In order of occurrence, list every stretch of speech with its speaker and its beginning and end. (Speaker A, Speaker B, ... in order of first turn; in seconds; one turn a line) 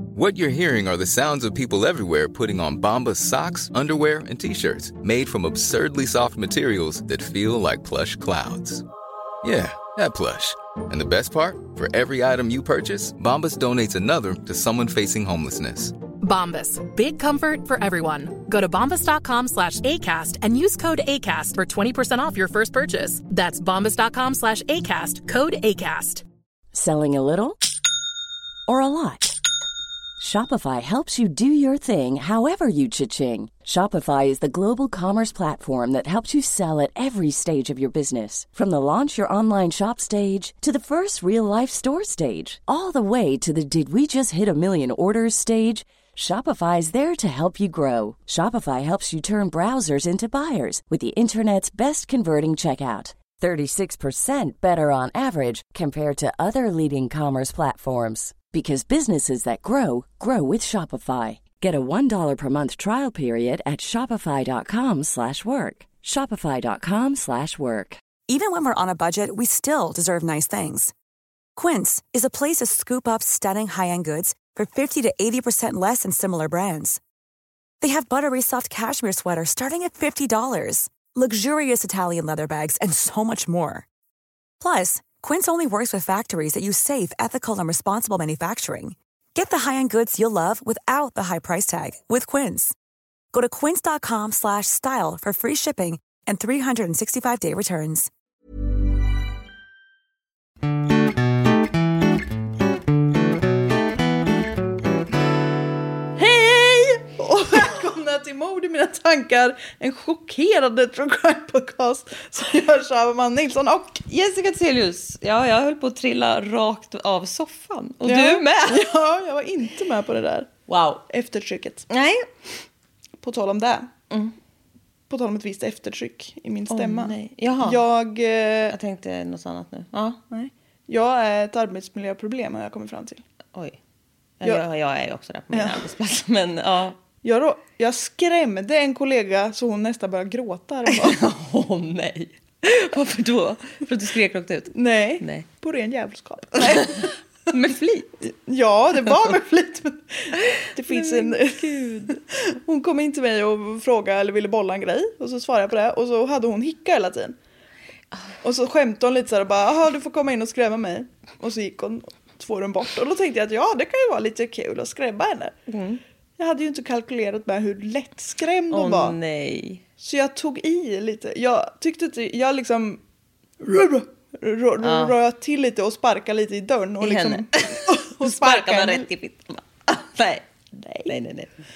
Speaker A: 0.1-8.8
Speaker A: 9.4-16.0
Speaker B: 16.2-26.2
Speaker C: 26.7-27.6
Speaker C: 28.7-29.4
Speaker C: 30.2-68.0
Speaker D: 68.3-70.9
Speaker D: 71.5-77.0
Speaker D: 77.8-83.8
Speaker D: 84.6-92.7
Speaker D: 93.3-98.1
Speaker E: 106.2-114.0
Speaker F: 114.1-118.9
Speaker E: 118.0-120.5
Speaker F: 120.7-121.0
Speaker E: 121.1-121.9
Speaker F: 121.9-122.3
Speaker E: 123.2-123.9
Speaker E: 125.1-128.8
Speaker F: 126.7-127.8
Speaker F: 128.7-130.2
Speaker E: 130.3-133.2
Speaker F: 133.5-133.8
Speaker F: 134.4-137.0
Speaker E: 135.5-135.9
Speaker E: 137.2-141.3
Speaker F: 140.9-145.4
Speaker E: 144.7-147.1
Speaker F: 146.5-148.1
Speaker E: 148.2-157.3
Speaker F: 150.9-152.2
Speaker E: 158.4-165.5
Speaker F: 165.7-166.0
Speaker E: 166.4-169.1
Speaker F: 168.7-169.8
Speaker E: 170.0-173.0
Speaker E: 173.6-179.1
Speaker F: 174.8-175.2
Speaker F: 177.0-180.4
Speaker E: 180.7-181.1
Speaker F: 181.1-181.5